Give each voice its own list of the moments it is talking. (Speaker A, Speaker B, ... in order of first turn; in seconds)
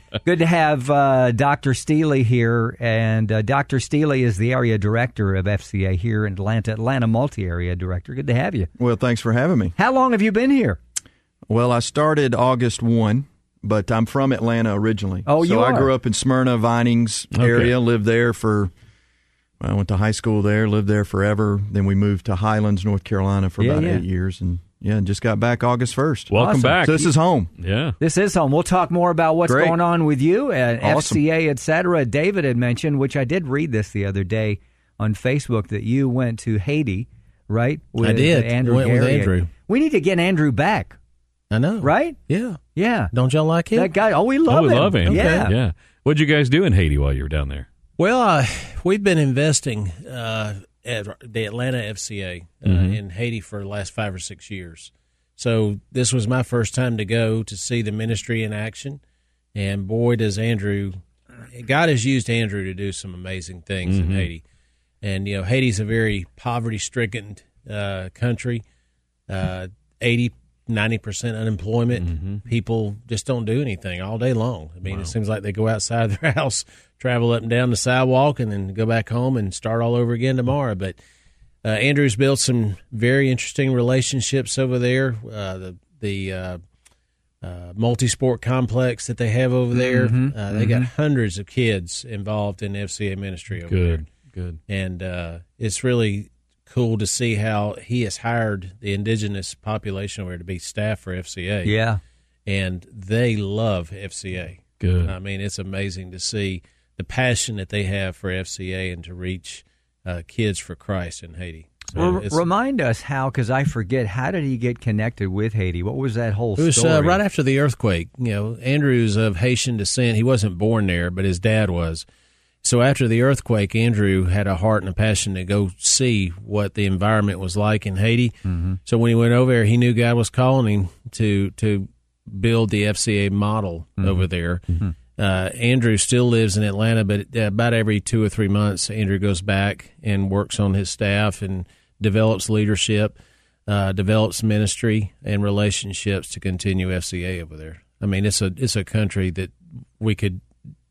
Speaker A: 0.2-8.7, 9.8-10.8, 15.3-15.9, 23.6-24.0, 26.3-27.1, 28.0-41.0, 41.8-42.2, 42.8-43.1, 43.7-45.5, 89.7-90.9, 101.6-102.0, 112.0-117.2, 128.5-128.8, 134.0-134.9
Speaker B: 8.8-9.8, 11.5-18.7, 19.6-27.5, 29.4-29.8, 30.8-31.2
Speaker C: 17.3-17.8, 26.3-28.0, 44.5-47.7, 52.6-53.0, 63.9-64.3, 72.0-72.4, 74.9-75.1, 93.6-94.6, 104.8-105.1
Speaker D: 38.0-39.5, 41.5-42.6, 43.1-43.9, 45.0-45.5, 48.0-59.0, 59.5-61.0, 61.5-64.4, 65.0-68.6, 69.3-81.0, 81.6-86.6, 87.4-94.0, 94.7-101.7, 102.5-112.4, 116.6-122.0, 122.6-134.6, 135.2-143.2, 143.7-150.4